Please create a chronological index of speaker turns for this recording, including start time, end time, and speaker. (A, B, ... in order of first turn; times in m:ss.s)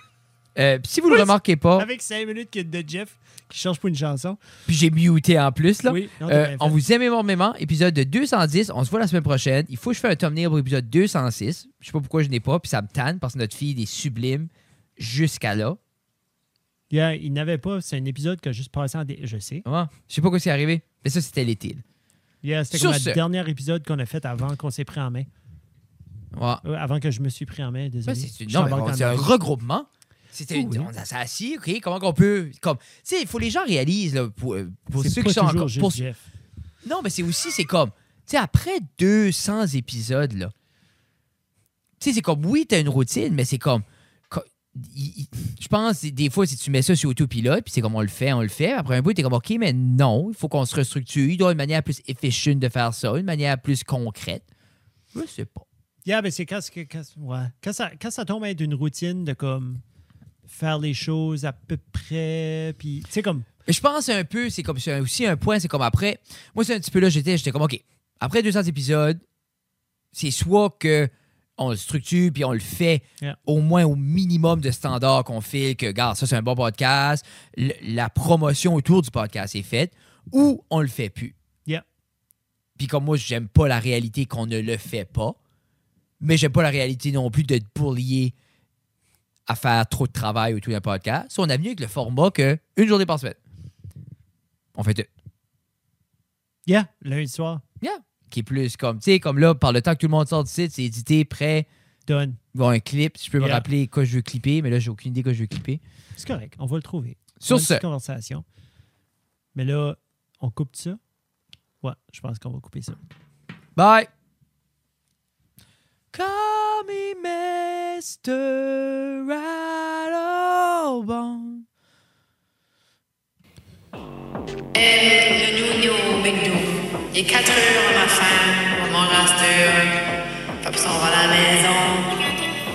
0:00.6-0:01.9 A
0:01.1-0:04.4 B
0:04.7-0:15.8 A
0:05.8-0:06.8 B
0:16.9-0:19.6 B
0:19.6-0:21.8 A
0:22.4-0:25.3 B
0:22.7-0:23.2 A
0:26.3-0:26.6 A
0:26.6-0:29.3 B
0:28.0-0:36.0 A
0:30.5-0:30.9 B
0:34.9-0:36.2 B
0:36.8-0:40.5 A
0:42.0-0:54.4 A
0:55.1-0:55.6 A
0:56.0-0:59.8 B
1:00.5-1:03.5 B
1:03.7-1:09.2 A
1:10.1-1:21.3 A
1:22.8-1:25.4 A
1:26.2-1:28.3 A
1:29.5-1:33.4 A
1:34.7-1:35.1 A
1:36.7-1:37.6 B
1:37.8-1:41.7 A
1:42.1-1:42.4 B
1:42.5-1:45.8 A
1:43.4-1:43.6 B
1:46.2-1:48.4 B
1:47.4-1:47.8 A
1:49.5-1:51.0 B
1:51.8-1:53.0 B
1:53.7-1:54.1 A
1:56.1-2:01.6 A
2:04.7-2:10.0 C
2:10.6-2:12.2 C